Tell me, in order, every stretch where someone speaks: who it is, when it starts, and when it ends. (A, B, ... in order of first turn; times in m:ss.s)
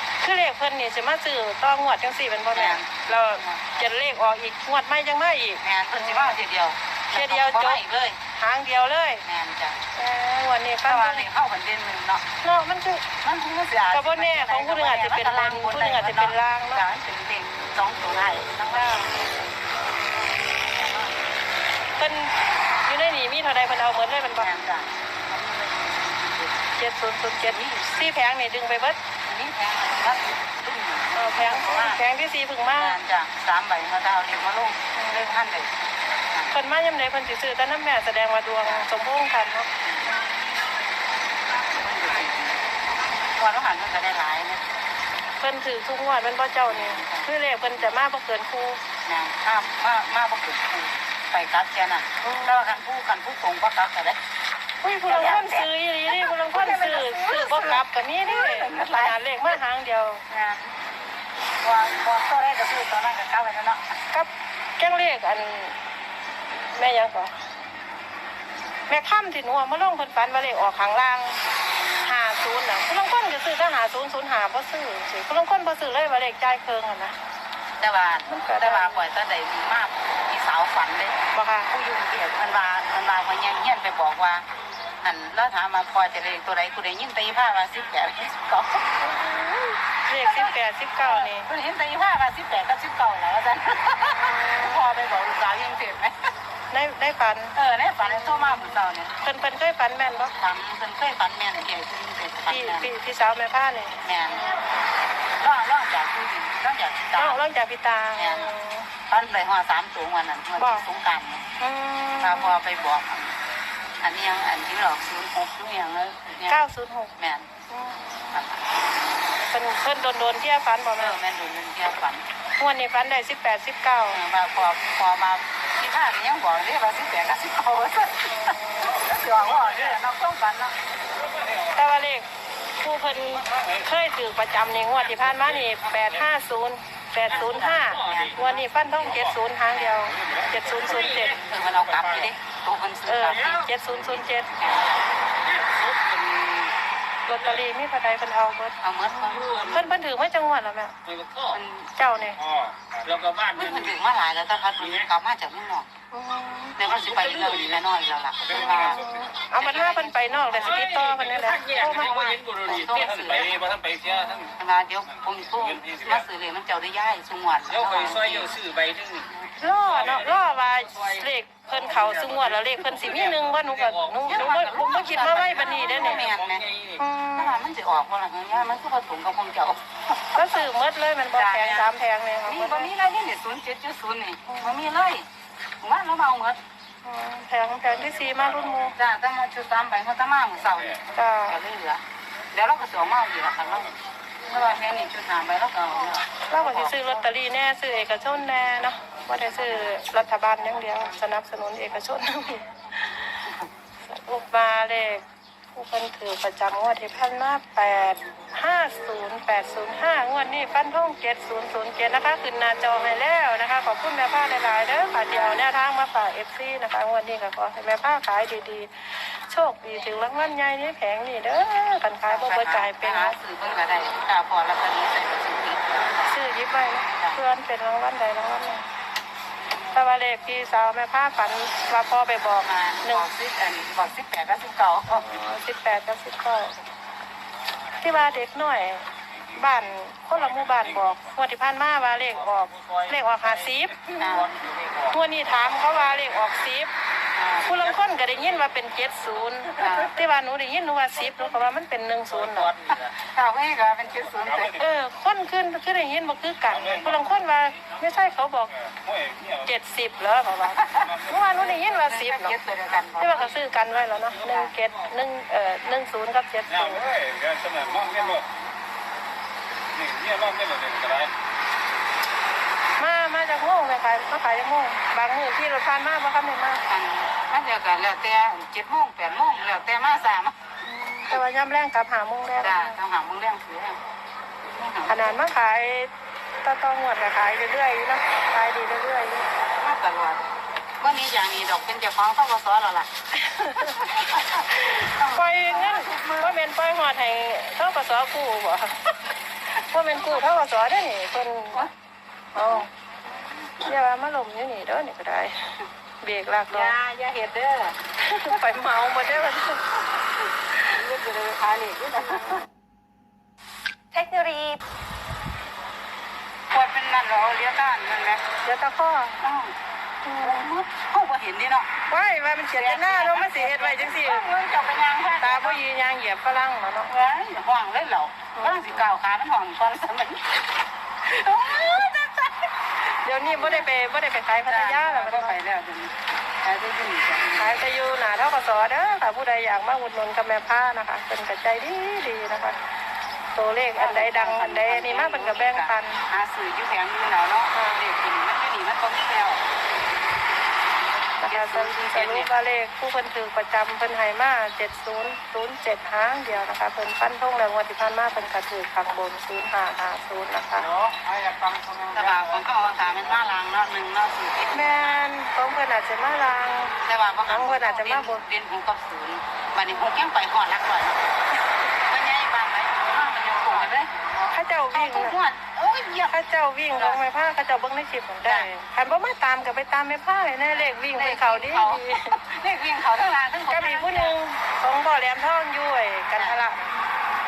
0:00.2-0:06.4 A
0:02.5-0:03.8 B
0:05.6-0:08.2 B
0:07.1-0:07.8 A
0:08.3-0:09.2 A
0:09.2-0:09.9 B
0:09.9-0:11.3 A
0:10.8-0:12.3 B
0:12.4-0:13.1 A
0:13.2-0:19.4 B
0:13.9-0:16.8 A
0:18.7-0:19.1 A
0:20.8-0:21.1 B
0:22.0-0:24.5 A
0:24.4-0:26.7 B
0:26.8-0:29.0 A
0:27.3-0:28.1 B
0:29.2-0:32.0 B
0:31.1-0:33.0 A
0:32.6-0:36.6 B
0:34.9-0:35.3 A
0:36.5-0:40.5 A
0:38.6-0:38.9 B
0:39.8-0:40.2 B
0:41.5-0:44.6 B
0:45.4-0:48.8 A
0:46.6-0:47.9 B
0:49.0-0:54.2 B
0:52.2-0:52.8 A
0:54.8-1:00.2 A
0:55.0-0:59.2 B
1:00.3-1:00.8 B
1:01.6-1:04.0 B
1:04.1-1:05.8 A
1:06.6-1:07.4 A
1:08.9-1:11.4 A
1:12.0-1:17.2 A
1:17.8-1:24.4 B
1:18.3-1:19.0 A
1:21.3-1:21.7 A
1:25.0-1:29.1 B
1:29.0-1:31.5 A
1:30.1-1:36.2 B
1:34.2-1:34.8 A
1:36.7-1:40.3 A
1:37.5-1:39.1 B
1:40.2-1:42.9 B
1:42.5-1:44.0 A
1:44.0-1:44.7 B
1:45.4-1:47.4 B
1:47.1-1:48.9 A
1:48.2-1:48.5 B
1:49.1-1:51.4 B
1:50.6-1:50.9 A
1:51.6-1:52.6 A
1:52.2-1:53.4 B
1:54.0-1:56.6 B
1:56.5-1:57.1 A
1:57.2-1:57.5 B
1:57.7-1:58.4 A
1:58.3-1:58.9 B
1:59.4-2:01.2 A
2:00.9-2:02.3 B
2:02.6-2:04.2 A
2:04.1-2:10.7 B
2:08.3-2:08.9 A
2:11.3-2:11.7 C
2:11.7-2:12.3 A
2:12.8-2:21.4 A
2:13.4-2:13.8 C
2:15.0-2:16.2 C
2:17.3-2:19.2 B
2:17.9-2:18.3 C
2:19.7-2:20.0 B
2:20.1-2:22.0 C
2:21.2-2:25.3 B
2:23.0-2:24.5 A
2:23.4-2:23.7 C
2:25.4-2:26.8 C
2:27.3-2:30.9 A
2:28.8-2:29.9 B
2:29.4-2:29.8 C
2:31.0-2:31.6 C
2:31.5-2:31.9 B
2:32.0-2:32.4 A
2:32.4-2:33.7 C
2:33.5-2:35.9 B
2:36.1-2:36.8 A
2:36.8-2:40.9 B
2:37.0-2:37.6 C
2:38.5-2:42.2 A
2:38.7-2:39.3 C
2:40.7-2:44.5 C
2:41.7-2:43.6 B
2:44.0-2:44.4 A
2:44.5-2:48.6 B
2:45.8-2:46.1 C
2:47.8-2:49.3 C
2:49.6-2:56.3 A
2:49.8-2:51.3 C
2:51.8-2:55.0 C
2:54.2-2:56.6 B
2:56.3-2:57.0 C
2:57.0-2:57.6 A
2:57.3-3:00.7 B
3:00.3-3:02.9 A
3:01.3-3:01.9 B
3:02.4-3:05.3 B
3:04.5-3:04.8 A
3:05.8-3:06.6 B
3:07.0-3:09.0 A
3:08.9-3:14.0 B
3:11.1-3:11.6 A
3:14.5-3:17.3 B
3:16.5-3:23.1 A
3:19.3-3:20.0 B
3:24.0-3:25.2 A
3:25.7-3:43.4 A
3:35.3-3:35.7 B
3:42.3-3:46.3 B
3:46.2-3:48.9 A
3:49.9-3:53.3 A
3:52.6-3:55.3 B
3:55.2-3:56.8 A
3:58.0-4:04.0 A
4:00.4-4:01.2 C
4:02.2-4:05.2 C
4:04.2-4:04.6 B
4:05.1-4:06.9 A
4:07.3-4:07.8 B
4:07.6-4:12.7 A
4:08.3-4:08.6 C
4:09.8-4:10.2 B
4:12.3-4:13.1 C
4:13.0-4:14.8 B
4:14.4-4:14.7 C
4:14.8-4:18.7 A
4:16.7-4:17.3 C
4:18.8-4:19.7 C
4:19.6-4:22.6 A
4:20.8-4:23.7 B
4:21.1-4:21.4 C
4:23.2-4:27.1 A
4:24.3-4:24.7 B
4:26.7-4:28.4 C
4:27.7-4:28.4 B
4:30.0-4:31.3 C
4:33.0-4:36.8 A
4:36.9-4:40.6 B
4:40.8-4:43.0 A
4:42.6-4:44.1 B
4:44.6-4:45.4 B
4:45.1-4:46.1 A
4:46.6-4:49.5 A
4:49.8-4:50.4 B
4:51.0-4:53.1 B
4:53.4-4:53.9 A
4:53.6-4:56.6 B
4:54.9-4:59.1 A
4:59.8-5:01.9 A
5:00.1-5:00.5 B
5:02.5-5:02.9 A
5:02.6-5:03.9 B
5:03.8-5:07.0 A
5:06.7-5:12.6 B
5:08.2-5:09.8 A
5:14.1-5:14.7 B
5:16.7-5:18.4 B
5:18.6-5:19.4 A
5:19.4-5:19.7 B
5:20.2-5:20.7 A
5:20.4-5:22.0 B
5:22.1-5:24.5 A
5:22.7-5:25.8 B
5:25.3-5:27.1 A
5:27.1-5:30.6 B
5:28.6-5:28.9 A
5:31.2-5:32.7 B
5:33.0-5:35.6 A
5:33.4-5:33.9 B
5:34.7-5:37.8 B
5:37.6-5:42.8 A
5:43.5-5:46.2 A
5:44.0-5:49.6 B
5:47.7-5:48.0 A
5:51.4-6:00.9 A
5:51.5-5:52.5 B
6:01.0-6:02.2 C
6:02.1-6:05.3 B
6:04.7-6:07.0 A
6:07.0-6:11.2 B
6:07.5-6:08.4 A
6:11.9-6:14.3 B
6:14.5-6:15.4 A
6:14.9-6:16.4 B
6:16.3-6:22.4 A
6:16.9-6:17.2 B
6:18.4-6:18.7 B
6:20.7-6:24.4 B
6:23.7-6:27.0 A
6:26.3-6:26.6 B